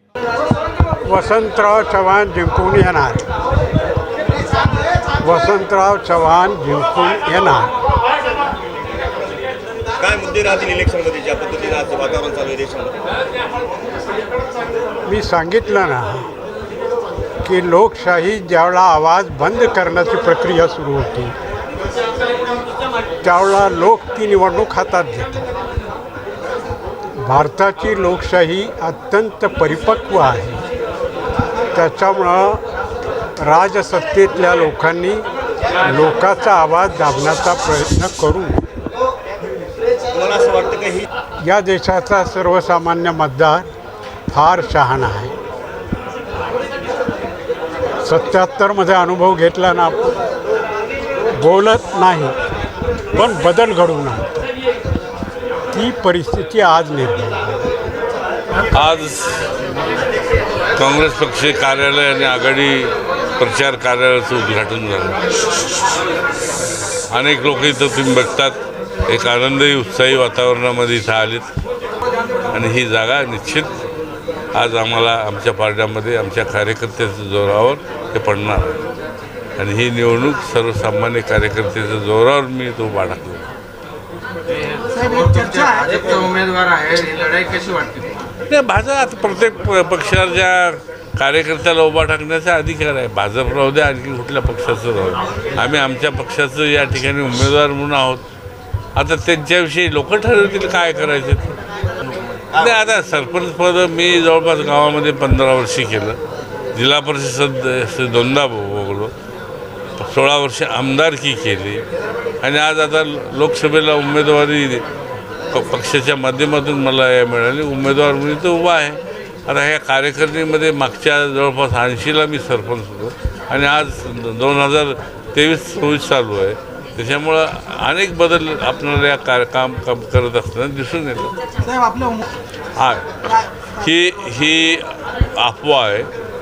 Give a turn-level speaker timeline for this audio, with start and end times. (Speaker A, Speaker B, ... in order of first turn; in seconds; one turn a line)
Speaker A: 1.1-3.3
Speaker A: 5.2-7.7
Speaker B: 10.0-13.0
Speaker A: 15.1-16.3
Speaker A: 17.4-21.3
Speaker A: 23.2-25.5
Speaker A: 27.2-30.6
Speaker A: 31.7-32.6
Speaker A: 33.4-35.2
Speaker A: 35.8-38.6
Speaker B: 40.1-41.1
Speaker A: 41.4-43.7
Speaker A: 44.3-45.3
Speaker A: 48.0-50.0
Speaker A: 51.4-52.3
Speaker A: 53.1-54.4
Speaker A: 55.7-57.7
Speaker C: 58.7-59.5
Speaker C: 60.8-65.2
Speaker C: 67.1-71.5
Speaker C: 72.5-73.7
Speaker C: 74.5-78.8
Speaker C: 79.6-83.5
Speaker D: 84.6-88.1
Speaker C: 88.5-98.2
Speaker C: 99.0-101.6
Speaker C: 102.5-106.2
Speaker C: 106.8-109.1
Speaker C: 110.0-111.8
Speaker C: 112.4-114.8
Speaker C: 115.5-131.3
Speaker C: 132.8-136.1